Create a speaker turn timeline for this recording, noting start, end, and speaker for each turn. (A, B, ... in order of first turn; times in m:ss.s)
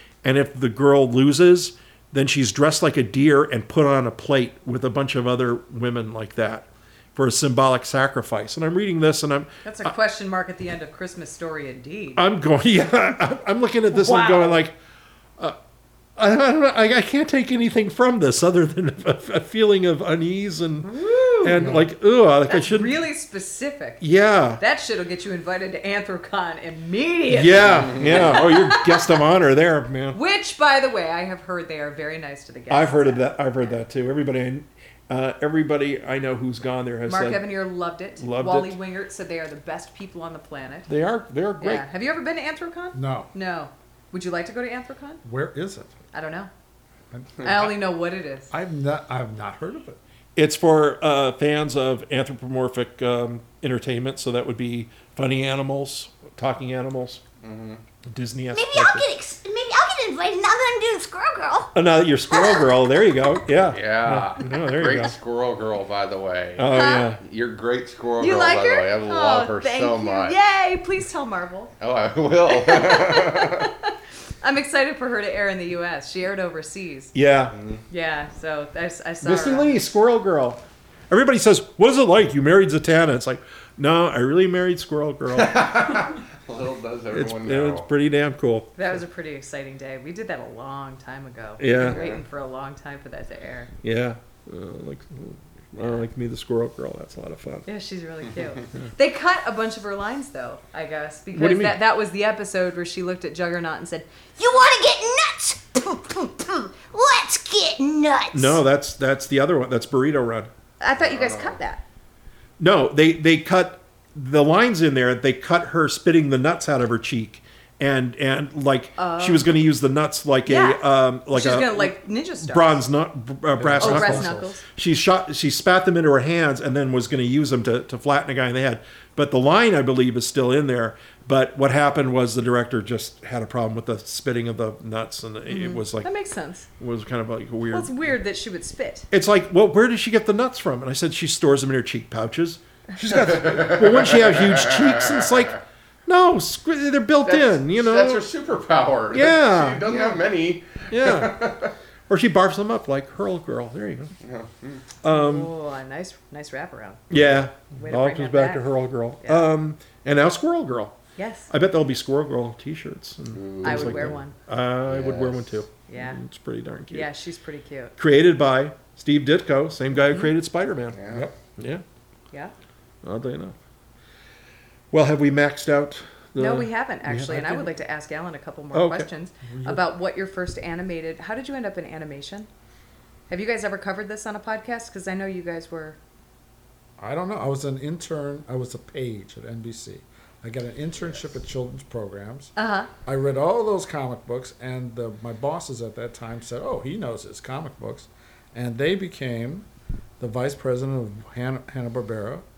0:00.2-0:09.9 A
0:09.6-0:12.2 B
0:12.2-0:14.8 A
0:13.9-0:14.6 B
0:16.2-0:23.0 A
0:20.8-0:21.7 B
0:21.6-0:21.9 C
0:22.5-0:24.0 B
0:24.0-0:24.6 A
0:24.6-0:29.2 B
0:27.3-0:30.2 A
0:30.1-0:33.7 B
0:32.7-0:37.5 A
0:37.1-0:40.9 B
0:38.2-0:38.8 A
0:40.9-0:41.8 A
0:41.6-0:45.2 B
0:42.9-0:43.3 C
0:45.2-0:46.0 C
0:46.1-0:46.5 B
0:47.1-0:47.8 C
0:47.4-0:48.5 B
0:48.5-0:50.0 C
0:50.4-0:57.2 A
0:57.4-0:57.8 D
0:58.1-0:59.1 A
0:58.5-1:01.7 E
1:01.7-1:05.2 A
1:02.3-1:03.3 E
1:03.6-1:10.4 D
1:06.6-1:07.2 A
1:06.7-1:07.2 B
1:08.2-1:11.7 B
1:11.8-1:13.7 D
1:12.5-1:17.1 B
1:17.1-1:17.6 A
1:17.5-1:17.8 D
1:17.9-1:19.8 B
1:19.2-1:25.9 A
1:25.4-1:27.9 D
1:27.1-1:28.7 A
1:28.8-1:33.7 B
1:31.6-1:32.0 A
1:31.8-1:32.2 D
1:33.8-1:37.7 A
1:37.7-1:44.3 B
1:41.3-1:41.8 A
1:44.4-1:48.6 E
1:48.3-1:50.5 A
1:50.8-1:51.8 B
1:51.0-1:51.6 D
1:52.6-2:16.1 A
1:59.0-1:59.5 B
2:00.5-2:02.8 B
2:03.6-2:04.5 C
2:03.8-2:04.6 B
2:15.5-2:16.7 B
2:16.8-2:17.9 A
2:17.7-2:19.1 B
2:19.1-2:28.3 A
2:23.3-2:25.0 D
2:27.2-2:31.7 D
2:29.1-2:30.2 A
2:30.9-2:31.6 A
2:32.1-2:34.2 A
2:34.2-2:34.8 D
2:35.0-2:35.5 A
2:35.1-2:37.1 B
2:37.1-2:41.0 A
2:37.8-2:38.6 B
2:39.2-2:39.5 B
2:41.2-2:41.5 B
2:41.5-2:47.1 A
2:43.3-2:44.2 D
2:43.6-2:44.3 B
2:44.9-2:45.5 D
2:45.9-2:46.2 B
2:46.9-2:47.9 B
2:48.0-2:51.0 A
2:51.0-2:51.3 D
2:51.6-2:51.8 A
2:53.0-2:53.6 A
2:54.9-2:57.7 A
2:56.4-3:02.5 B
2:58.7-2:59.1 A
2:59.5-2:59.8 C
3:03.3-3:06.0 B
3:07.0-3:12.5 C
3:12.6-3:12.9 B
3:13.0-3:19.7 C
3:20.2-3:22.4 C